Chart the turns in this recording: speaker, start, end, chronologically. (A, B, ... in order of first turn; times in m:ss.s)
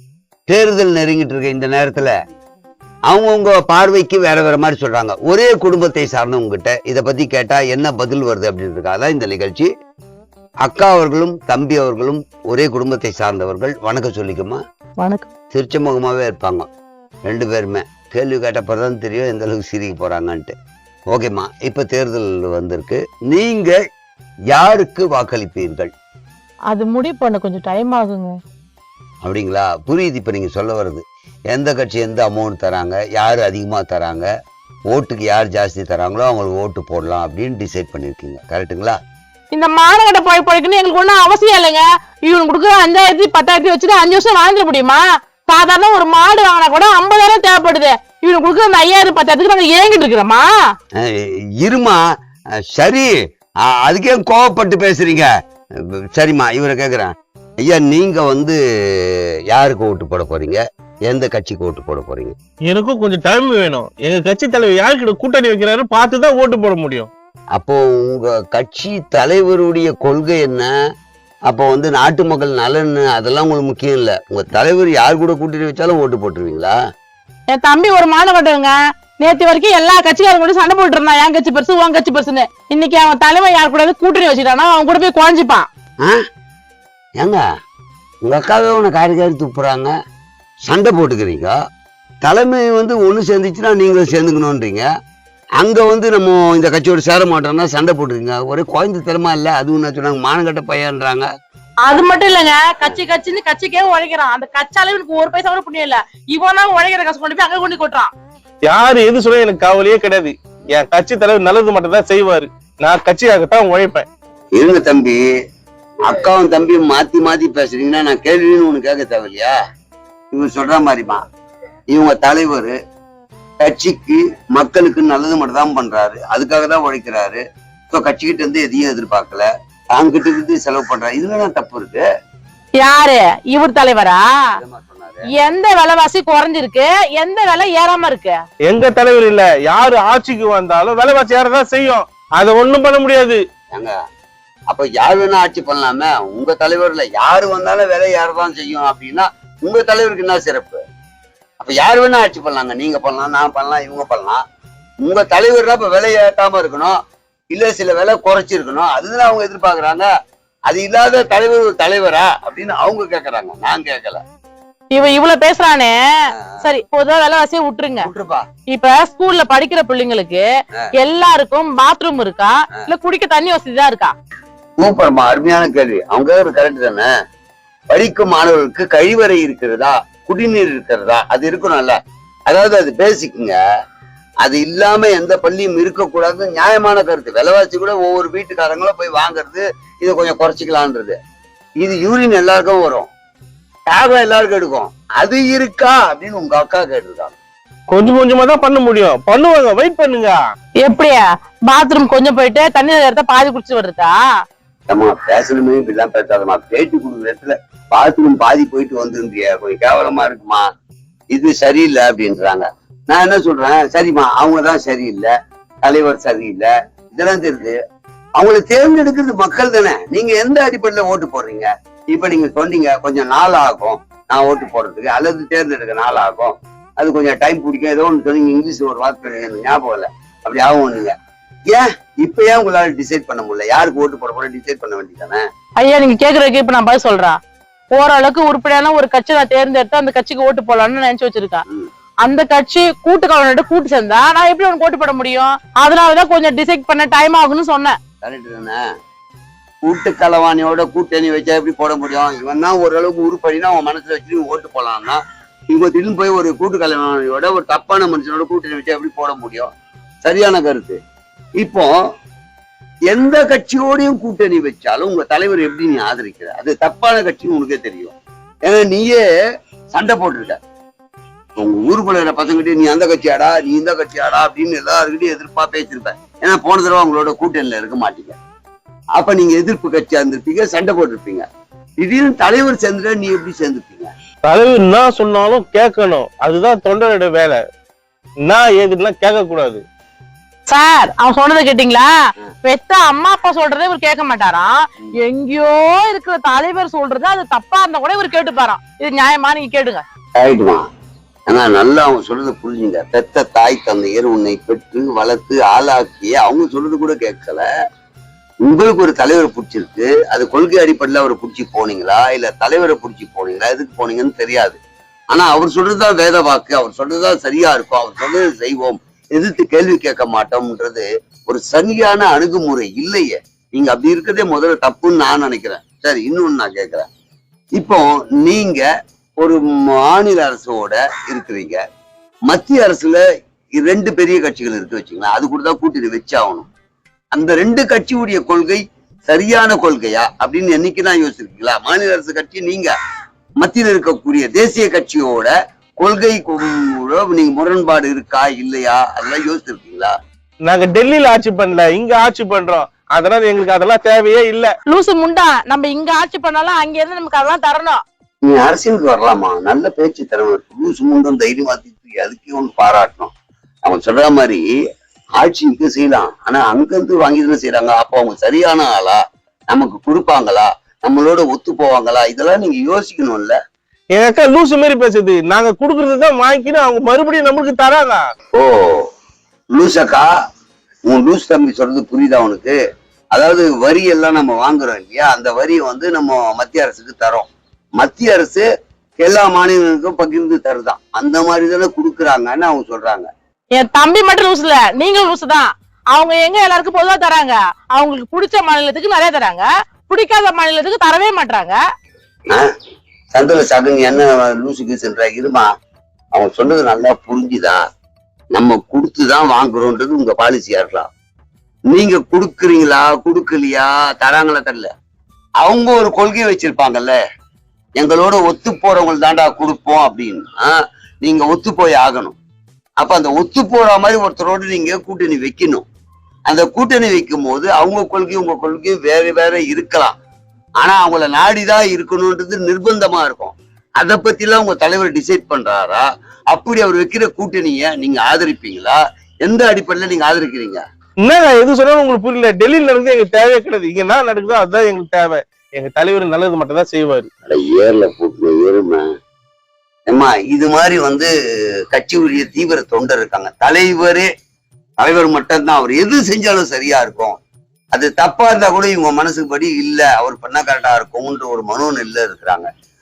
0:00.5-0:02.1 A
0:03.1-0:09.7 A
0:10.6-0:14.6 A
0:15.0-0:15.3 B
0:15.5-0:16.7 A
0:17.3-0:20.5 A
0:21.1-0:23.8 A
0:24.5-0:25.9 A
0:26.7-0:28.3 B
0:29.2-0:34.3 A
0:34.9-0:39.0 A
0:39.5-0:50.5 B
0:51.0-0:52.0 A
0:52.7-0:53.1 A
0:53.6-0:55.3 A
0:56.1-1:02.3 A
1:02.7-1:07.1 C
1:07.6-1:10.7 A
1:11.5-1:16.7 A
1:17.5-1:25.7 B
1:28.2-1:29.9 A
1:30.7-1:31.5 A
1:32.2-1:34.8 A
1:35.6-1:41.3 A
1:41.8-1:48.1 B
1:48.7-1:54.0 C
1:54.6-1:55.2 A
1:56.1-1:59.5 A
2:00.3-2:01.2 A
2:01.9-2:02.7 A
2:03.6-2:12.0 A
2:12.8-2:14.2 B
2:14.6-2:15.3 A
2:15.3-2:18.4 B
2:18.7-2:23.4 C
2:24.7-2:30.8 A
2:31.6-2:34.4 A
2:35.0-2:37.0 A
2:37.5-2:40.1 A
2:40.7-2:44.2 A
2:44.9-2:45.9 B
2:46.4-2:46.6 A
2:46.6-2:48.1 B
2:48.0-2:48.4 A
2:48.7-2:50.4 B
2:51.0-2:54.1 B
2:54.8-2:57.1 A
2:57.9-3:02.0 A
3:02.5-3:03.6 A
3:04.4-3:11.2 A
3:11.8-3:13.1 A
3:13.9-3:17.4 A
3:17.9-3:20.4 C
3:20.8-3:24.1 B
3:24.9-3:30.6 A
3:31.3-3:35.3 A
3:35.8-3:37.7 A
3:38.4-3:51.1 A
3:51.7-3:55.4 A
3:55.8-3:57.4 B
3:58.0-4:01.6 B
4:02.2-4:08.0 B
4:08.2-4:08.8 A
4:09.8-4:19.7 A
4:20.2-4:21.0 A
4:21.6-4:21.9 A
4:23.1-4:29.2 A
4:29.9-4:30.6 A
4:31.6-4:38.4 A
4:39.2-4:41.4 A
4:42.0-4:44.1 A
4:44.4-4:47.6 C
4:48.5-4:49.8 C
4:50.7-4:52.1 B
4:52.6-4:54.7 B
4:55.2-5:00.0 B
5:00.4-5:00.8 A
5:01.5-5:07.6 A
5:08.6-5:14.8 A
5:15.3-5:27.1 A
5:27.8-5:28.8 A
5:29.4-5:31.8 A
5:32.5-5:33.2 A
5:33.8-5:36.7 A
5:37.3-5:42.9 A
5:43.6-5:50.1 A
5:50.7-5:54.7 C
5:54.9-5:58.0 B
5:58.4-6:03.3 A
6:03.8-6:04.6 A
6:05.4-6:09.2 A
6:09.7-6:13.6 A
6:14.1-6:18.2 C
6:18.6-6:19.0 A
6:19.7-6:20.2 A
6:21.1-6:22.7 A
6:23.3-6:27.5 A
6:28.0-6:28.6 A
6:29.2-6:33.3 A
6:33.8-6:41.8 B
6:43.3-6:45.7 A
6:46.3-6:47.8 A
6:48.5-6:51.1 A
6:51.9-6:54.9 A
6:55.6-6:57.1 A
6:58.0-7:02.4 A
7:03.0-7:05.8 A
7:06.5-7:10.1 A
7:10.8-7:20.8 A
7:21.2-7:27.3 C
7:27.5-7:29.0 A
7:30.1-7:31.3 A
7:31.9-7:34.3 A
7:35.0-7:37.4 A
7:37.9-7:42.7 A